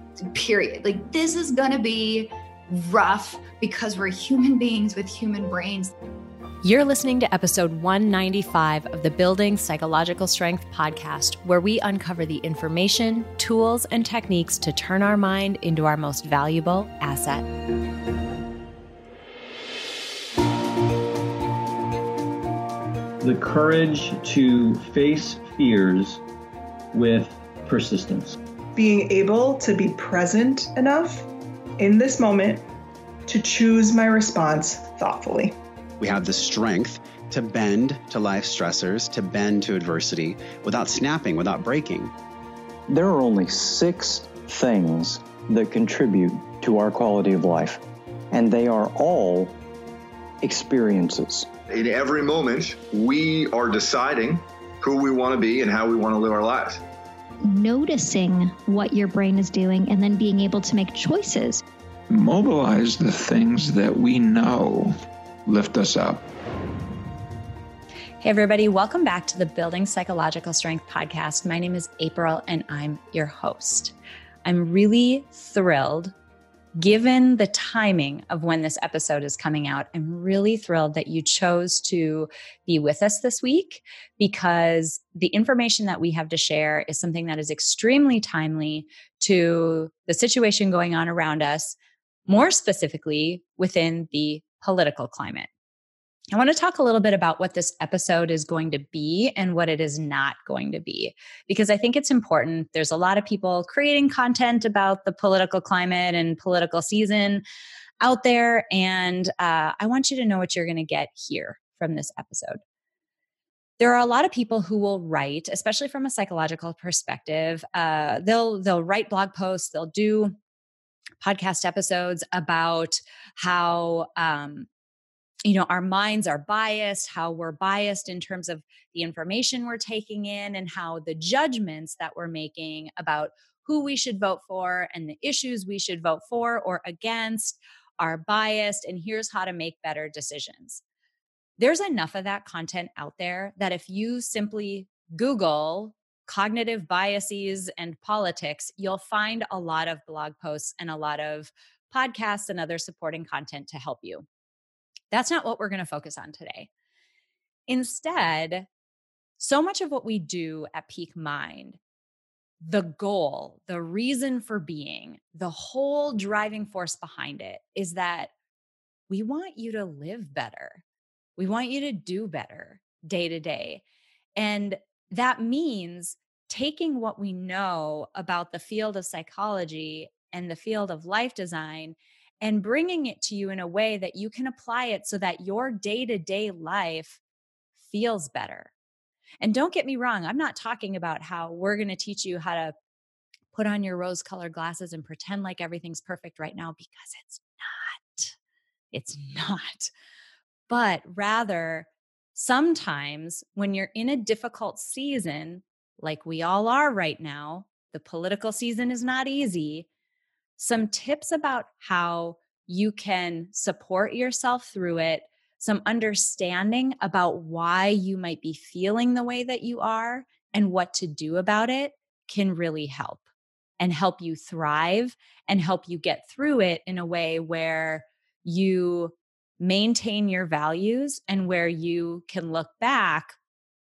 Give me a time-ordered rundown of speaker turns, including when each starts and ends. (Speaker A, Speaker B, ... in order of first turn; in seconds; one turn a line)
Speaker A: 0.2-5.9
Speaker B: 6.6-17.5
Speaker C: 23.2-26.2
Speaker C: 26.9-28.4
Speaker D: 28.8-32.7
Speaker D: 33.3-35.6
Speaker E: 36.0-42.1
Speaker F: 42.9-47.8
Speaker F: 48.3-49.5
Speaker F: 50.4-51.5
Speaker G: 51.7-56.8
Speaker H: 57.4-61.6
Speaker I: 62.1-65.0
Speaker I: 65.5-66.2
Speaker B: 68.2-73.9
Speaker B: 74.5-76.1
Speaker B: 76.8-91.8
Speaker B: 92.3-95.5
Speaker B: 96.3-107.4
Speaker B: 108.0-112.6
Speaker B: 113.8-120.4
Speaker B: 121.2-124.7
Speaker B: 125.5-140.8
Speaker B: 141.6-154.3
Speaker B: 155.1-156.7
Speaker B: 157.7-158.7
Speaker B: 159.4-161.8
Speaker B: 162.6-168.3
Speaker B: 169.1-170.8
Speaker B: 171.4-173.8
Speaker B: 174.4-187.2
Speaker B: 187.8-188.7
Speaker B: 189.4-192.7
Speaker B: 193.5-198.3
Speaker B: 198.9-199.9
Speaker B: 200.7-209.9
Speaker B: 210.6-223.2
Speaker B: 223.8-233.4